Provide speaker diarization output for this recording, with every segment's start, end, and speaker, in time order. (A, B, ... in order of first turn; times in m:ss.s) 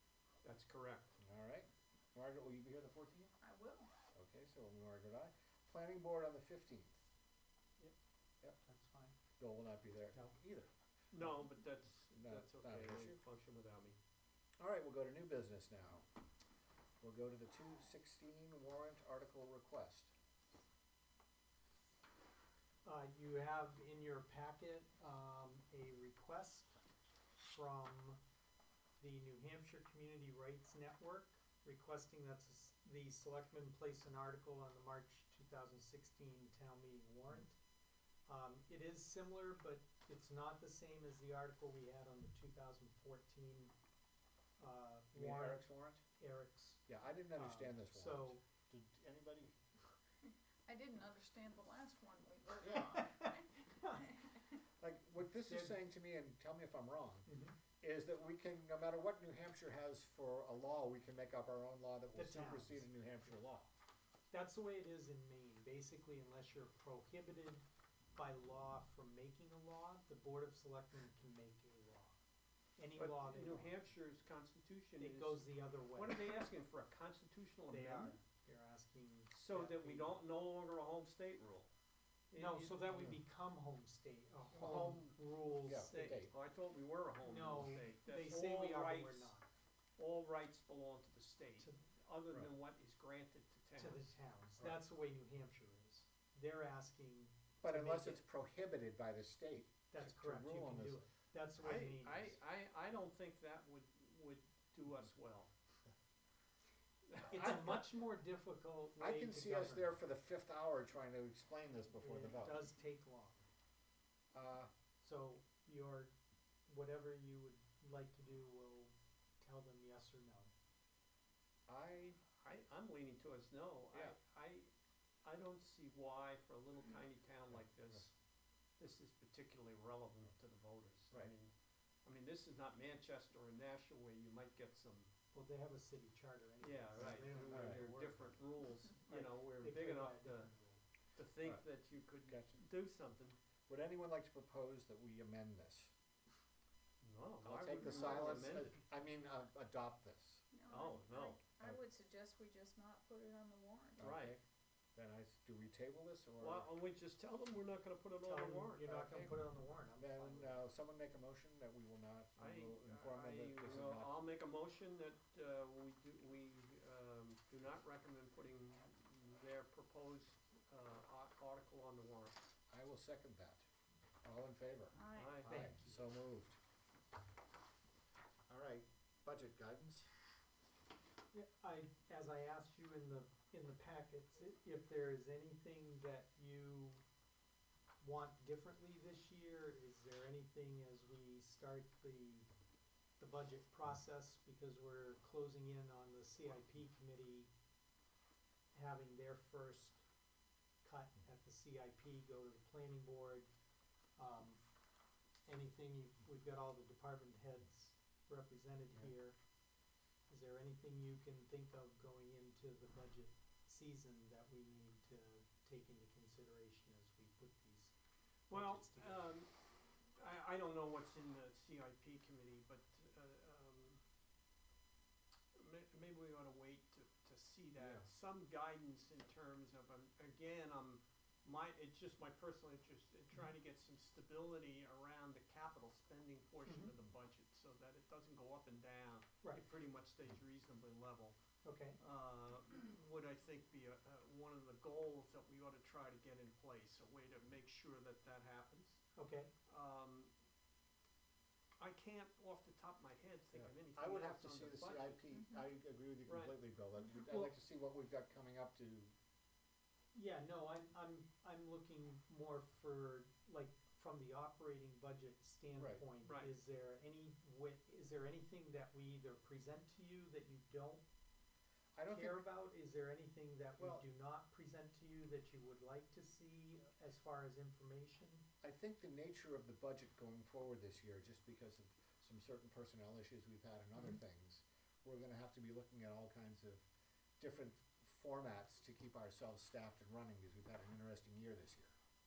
0:00.4-0:01.1 A
0:01.2-0:03.3 B
0:03.4-0:03.9 C
0:04.1-0:07.0 B
0:08.6-0:09.2 D
0:09.4-0:10.7 B
0:11.1-0:14.0 A
0:12.1-0:13.2 B
0:14.6-0:16.0 B
0:17.0-0:20.1 B
0:22.8-0:26.7 D
0:27.4-0:28.2 D
0:29.0-0:37.6 D
0:38.3-0:43.7 D
0:44.6-0:45.6 D
0:45.1-0:46.0 B
0:46.2-0:46.8 D
0:46.8-0:49.6 B
0:47.3-0:48.4 D
0:50.6-0:54.4 C
0:52.9-0:54.2 D
0:54.8-1:03.7 B
0:55.2-0:55.8 D
0:57.3-0:57.6 D
1:02.1-1:02.9 D
1:04.3-1:07.6 D
1:08.1-1:12.2 D
1:12.8-1:13.8 D
1:12.9-1:18.2 A
1:15.0-1:16.4 D
1:17.7-1:20.2 D
1:19.3-1:21.7 A
1:22.3-1:23.1 A
1:22.3-1:26.1 D
1:24.5-1:26.3 B
1:24.5-1:25.2 A
1:25.7-1:29.3 A
1:27.2-1:29.5 D
1:30.0-1:34.1 A
1:33.8-1:38.2 D
1:37.6-1:41.0 B
1:39.9-1:42.4 D
1:41.6-1:45.5 A
1:47.1-1:47.8 A
1:47.3-1:49.9 D
1:49.0-1:52.6 B
1:51.9-1:53.4 D
1:54.3-1:54.7 B
1:55.0-1:56.1 D
1:56.7-2:00.5 D
2:01.7-2:02.2 B
2:02.2-2:04.7 A
2:05.2-2:08.1 A
2:07.6-2:08.0 B
2:08.8-2:11.5 A
2:12.0-2:15.1 A
2:15.3-2:18.4 D
2:16.6-2:20.5 A
2:17.0-2:17.8 B
2:19.0-2:20.8 D
2:21.2-2:23.4 A
2:22.3-2:22.6 B
2:23.7-2:25.9 B
2:27.0-2:28.8 A
2:27.4-2:30.4 B
2:27.8-2:28.4 C
2:30.5-2:34.1 C
2:30.7-2:31.4 A
2:34.0-2:34.4 B
2:34.0-2:34.4 A
2:34.9-2:36.7 B
2:36.4-2:38.9 A
2:38.2-2:40.6 D
2:38.8-2:44.2 B
2:42.4-2:52.4 A
2:52.7-2:53.6 B
2:54.2-2:56.6 B
2:54.9-2:55.4 C
2:55.1-2:55.5 A
2:55.4-2:56.0 D
2:58.5-3:00.1 B
3:01.3-3:07.0 D
3:08.0-3:12.5 D
3:13.2-3:17.5 D
3:18.7-3:20.0 D
3:20.8-3:23.5 D
3:24.2-3:24.6 D
3:25.4-3:29.4 D
3:30.3-3:37.9 D
3:38.5-3:39.3 D
3:38.5-3:39.5 A
3:40.1-3:44.0 A
3:45.5-4:01.4 A
3:47.8-3:48.0 B
3:56.6-3:56.9 D
4:01.6-4:02.0 D
4:02.0-4:09.0 A
4:09.2-4:09.5 D
4:09.7-4:10.3 A
4:11.8-4:15.2 A
4:13.5-4:19.1 B
4:15.3-4:15.7 C
4:16.2-4:16.6 A
4:17.3-4:17.5 D
4:20.1-4:31.0 D
4:25.7-4:26.0 B
4:26.2-4:26.5 A
4:31.9-4:32.4 B
4:32.1-4:38.4 D
4:33.8-4:34.0 B
4:38.6-4:46.8 B
4:47.4-4:51.9 B